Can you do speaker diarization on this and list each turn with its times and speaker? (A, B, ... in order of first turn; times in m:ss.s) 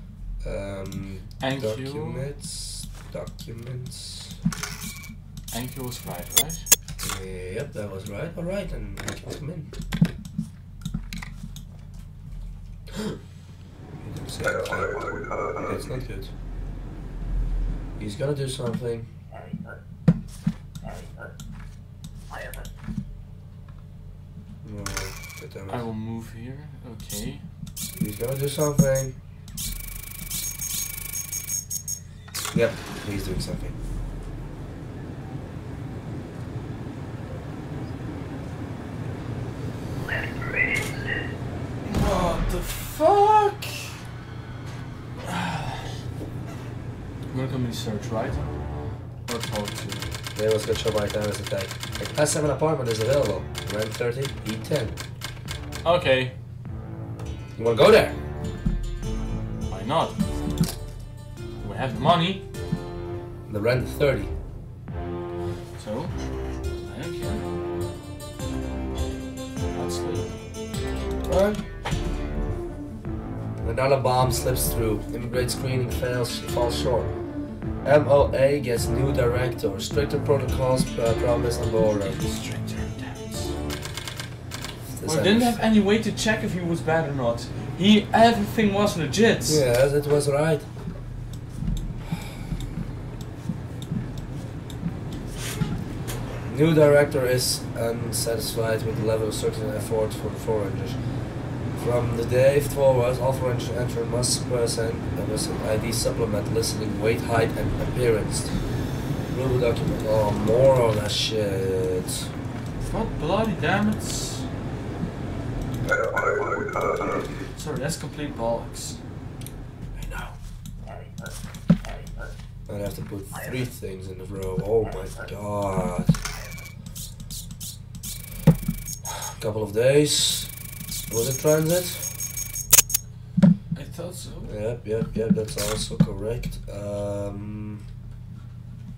0:00.4-0:04.4 A
0:01.4-0:02.3 B
0:05.5-0:06.7 B
0:07.0-0:09.7 A
0:14.0-0:15.0 A
0:15.6-0:16.3 A
0:18.0-0:19.1 A
0:24.6-0:25.9 A
0:25.7-0:27.4 B
0:28.0-0:29.1 A
0:32.5-0:33.8 A
0:41.8-0:44.0 B
0:45.2-0:45.9 B
0:47.3-0:48.5 B
0:49.3-0:50.1 B
0:50.3-0:55.0 A
0:55.8-0:56.3 B
0:57.6-0:58.2 A
0:59.7-1:00.2 B
1:01.6-1:02.4 B
1:03.5-1:04.3 A
1:05.8-1:06.2 B
1:06.7-1:07.4 B
1:09.7-1:10.3 B
1:11.3-1:11.6 A
1:13.6-1:17.1 A
1:17.8-1:22.2 A
1:21.8-1:23.6 B
1:24.9-1:25.7 A
1:25.0-1:29.7 B
1:29.5-1:30.7 A
1:36.5-1:41.0 A
1:41.8-1:48.6 A
1:49.3-1:52.3 A
1:52.8-1:54.5 B
1:57.5-1:59.0 B
2:00.0-2:00.4 A
2:02.7-2:06.2 A
2:09.0-2:10.5 A
2:11.1-2:12.1 A
2:13.7-2:14.6 B
2:14.4-2:17.8 A